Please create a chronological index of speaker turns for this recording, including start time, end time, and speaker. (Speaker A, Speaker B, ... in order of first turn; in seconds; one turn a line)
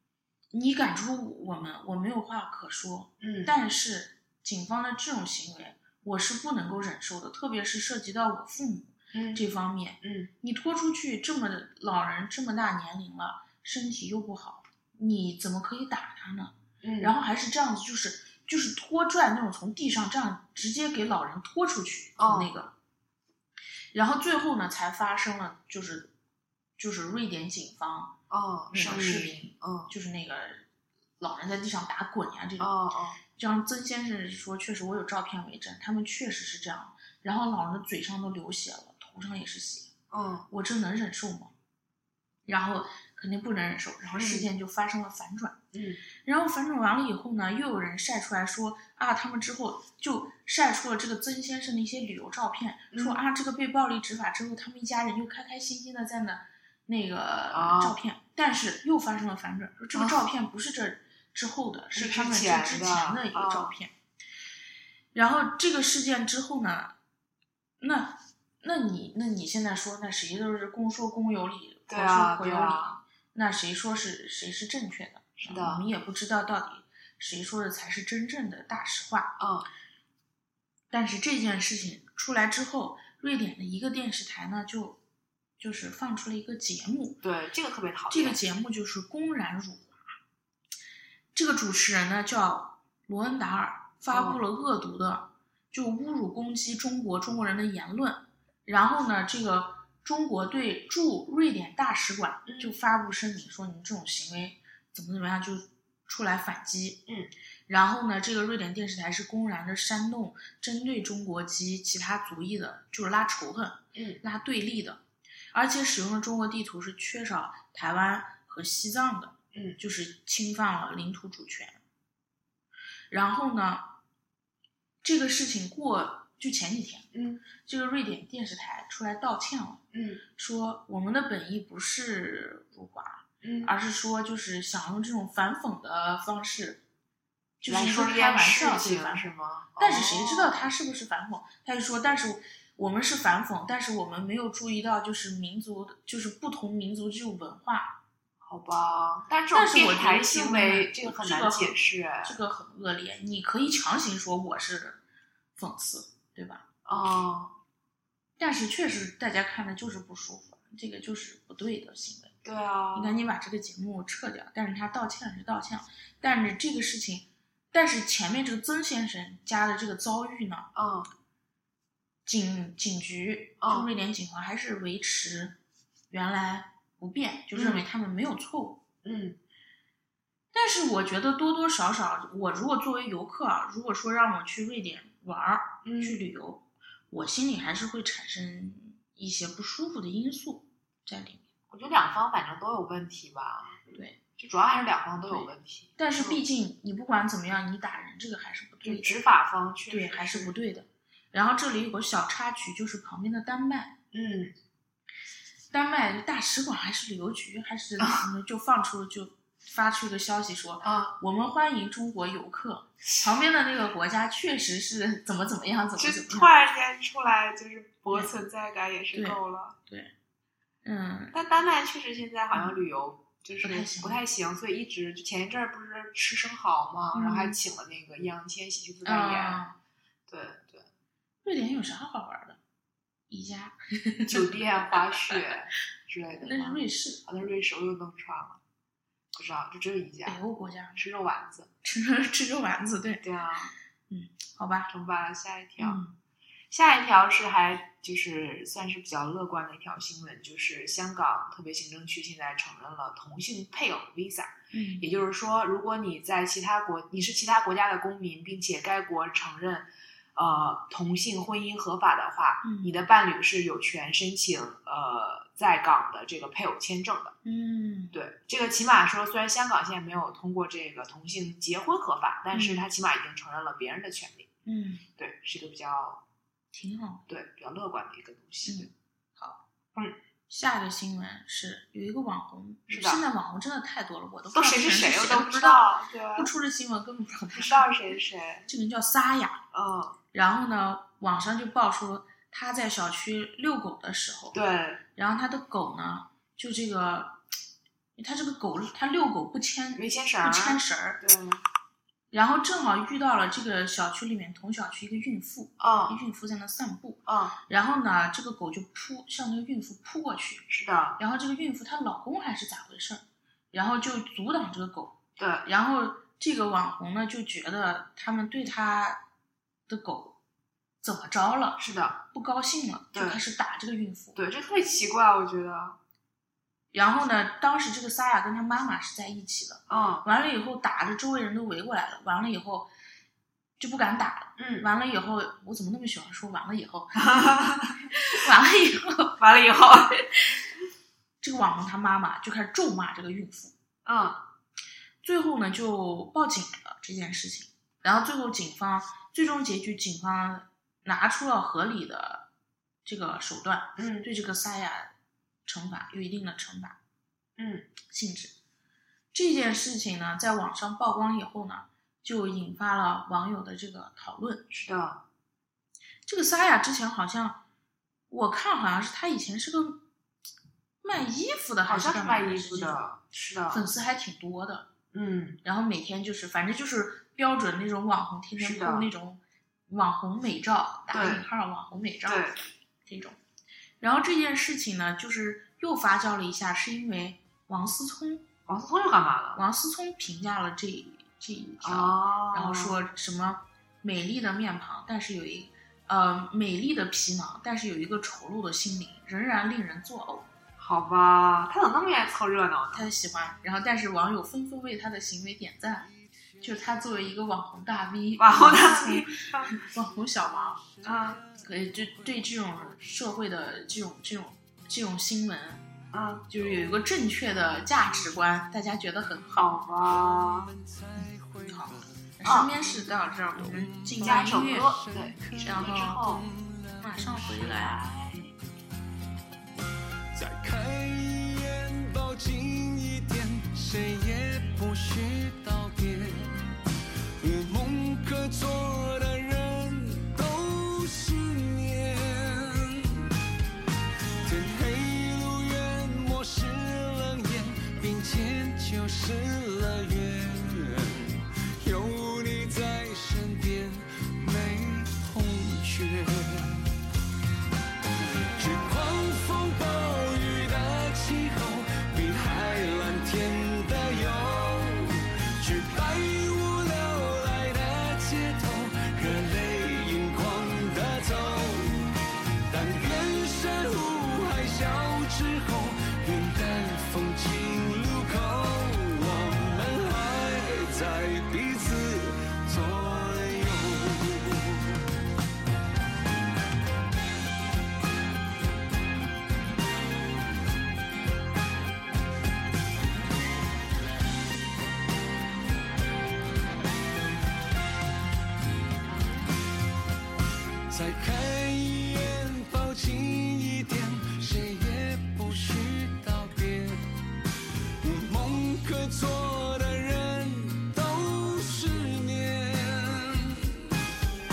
Speaker A: 0.5-22.7
Speaker B: 3.2-3.5
Speaker B: 9.1-9.4
Speaker B: 10.0-10.3
Speaker B: 16.8-17.1
Speaker B: 22.2-22.5
Speaker A: 23.9-26.1
Speaker A: 26.8-28.1
Speaker B: 28.3-29.9
Speaker A: 28.7-30.7
Speaker A: 31.2-32.7
Speaker B: 32.6-33.2
Speaker A: 33.4-39.9
Speaker B: 40.1-40.5
Speaker A: 40.5-41.5
Speaker A: 42.5-45.6
Speaker B: 44.1-44.5
Speaker B: 45.7-46.0
Speaker A: 46.2-63.9
Speaker B: 52.9-53.2
Speaker B: 57.5-58.0
Speaker B: 60.0-60.2
Speaker B: 61.9-63.8
Speaker A: 65.1-66.9
Speaker A: 67.8-79.3
Speaker B: 71.9-73.0
Speaker B: 75.4-75.8
Speaker B: 79.4-79.7
Speaker A: 80.9-85.0
Speaker A: 85.6-87.2
Speaker B: 87.2-88.4
Speaker A: 88.1-90.0
Speaker A: 91.3-107.0
Speaker B: 94.1-94.4
Speaker B: 102.5-102.8
Speaker A: 107.7-121.8
Speaker B: 113.9-114.2
Speaker B: 119.5-119.8
Speaker A: 123.1-123.9
Speaker A: 125.0-129.8
Speaker B: 127.1-127.4
Speaker B: 129.9-130.2
Speaker A: 130.3-136.8
Speaker B: 133.4-133.7
Speaker A: 137.6-148.0
Speaker B: 137.7-140.7
Speaker B: 148.4-152.4
Speaker A: 149.5-155.0
Speaker A: 155.6-156.6
Speaker B: 156.8-157.6
Speaker A: 158.4-162.3
Speaker B: 162.4-163.2
Speaker A: 162.9-170.7
Speaker B: 170.8-171.1
Speaker A: 172.3-175.6
Speaker B: 173.6-173.9
Speaker A: 176.1-178.8
Speaker B: 177.6-177.9
Speaker B: 179.0-179.4
Speaker A: 180.5-191.4
Speaker B: 185.8-186.2
Speaker B: 191.7-196.4
Speaker A: 193.9-194.2
Speaker A: 195.3-199.2
Speaker B: 198.8-200.5
Speaker A: 199.9-203.9
Speaker B: 204.1-204.5
Speaker A: 205.7-216.5
Speaker B: 208.0-208.2
Speaker B: 210.8-211.2
Speaker B: 216.0-219.8
Speaker A: 219.1-220.1
Speaker A: 220.8-221.4
Speaker B: 221.3-229.6
Speaker A: 223.6-224.2
Speaker A: 227.1-227.6
Speaker A: 229.1-229.8
Speaker B: 230.3-230.9
Speaker A: 231.4-232.6
Speaker A: 233.3-235.4
Speaker B: 234.3-238.6
Speaker A: 236.4-237.3
Speaker B: 239.3-240.4
Speaker A: 240.2-241.0
Speaker B: 241.0-241.7
Speaker A: 241.8-243.2
Speaker B: 243.2-243.7
Speaker A: 244.1-244.9
Speaker B: 244.9-246.0
Speaker A: 245.8-246.2
Speaker B: 246.7-267.4
Speaker A: 254.7-255.1
Speaker A: 262.6-263.0
Speaker A: 267.4-268.2
Speaker B: 268.1-274.5
Speaker A: 272.5-272.9
Speaker A: 274.6-275.1
Speaker B: 275.2-276.2
Speaker A: 276.7-277.3
Speaker B: 277.3-278.9
Speaker A: 278.6-279.6
Speaker A: 280.5-287.9
Speaker B: 282.9-283.2
Speaker B: 284.5-286.5
Speaker B: 287.5-288.7
Speaker A: 288.7-289.6
Speaker B: 289.7-290.2
Speaker A: 290.3-294.6
Speaker B: 294.5-295.0
Speaker A: 295.1-297.4
Speaker A: 298.2-301.2
Speaker B: 300.0-301.6
Speaker A: 302.3-310.7
Speaker B: 305.8-306.2
Speaker B: 307.3-307.6
Speaker B: 310.7-311.2
Speaker A: 311.2-319.2
Speaker B: 315.4-315.7
Speaker A: 319.9-320.4
Speaker A: 321.0-324.4
Speaker B: 321.8-322.2
Speaker B: 323.1-323.4
Speaker B: 324.4-326.0
Speaker A: 326.9-332.9
Speaker B: 329.9-330.3
Speaker A: 333.8-337.5
Speaker B: 334.6-334.9
Speaker B: 337.2-338.0
Speaker A: 338.2-339.4
Speaker B: 339.4-340.2
Speaker A: 340.2-340.4
Speaker A: 341.4-343.7
Speaker B: 344.1-344.4
Speaker A: 345.2-352.5
Speaker A: 353.1-355.1
Speaker B: 354.0-354.3
Speaker A: 355.7-357.0
Speaker B: 357.6-357.9
Speaker A: 358.1-358.5
Speaker A: 359.3-364.7
Speaker B: 364.7-365.2
Speaker A: 366.3-367.6
Speaker A: 368.3-370.0
Speaker A: 371.0-373.0
Speaker B: 371.9-373.8
Speaker A: 373.7-374.9
Speaker B: 375.1-375.6
Speaker A: 375.6-382.5
Speaker B: 378.6-379.1
Speaker B: 381.1-381.5
Speaker B: 382.3-382.6
Speaker A: 383.1-383.4
Speaker A: 384.0-388.5
Speaker B: 388.7-389.6
Speaker A: 389.6-400.5
Speaker B: 391.8-393.0
Speaker B: 400.8-403.1
Speaker A: 402.9-411.0
Speaker B: 408.4-409.7
Speaker B: 411.0-411.4
Speaker A: 411.6-415.8
Speaker B: 416.1-416.5
Speaker A: 416.5-419.8
Speaker B: 419.6-420.7
Speaker C: 420.0-422.9
Speaker A: 421.2-424.9
Speaker B: 422.4-422.7
Speaker C: 423.6-427.9
Speaker B: 424.2-426.5
Speaker A: 425.6-426.2
Speaker A: 427.0-428.1
Speaker B: 427.6-428.5
Speaker C: 430.3-436.8
Speaker C: 437.4-443.3
Speaker C: 444.4-456.8
Speaker C: 458.6-484.9
Speaker C: 500.9-507.1
Speaker C: 508.0-513.9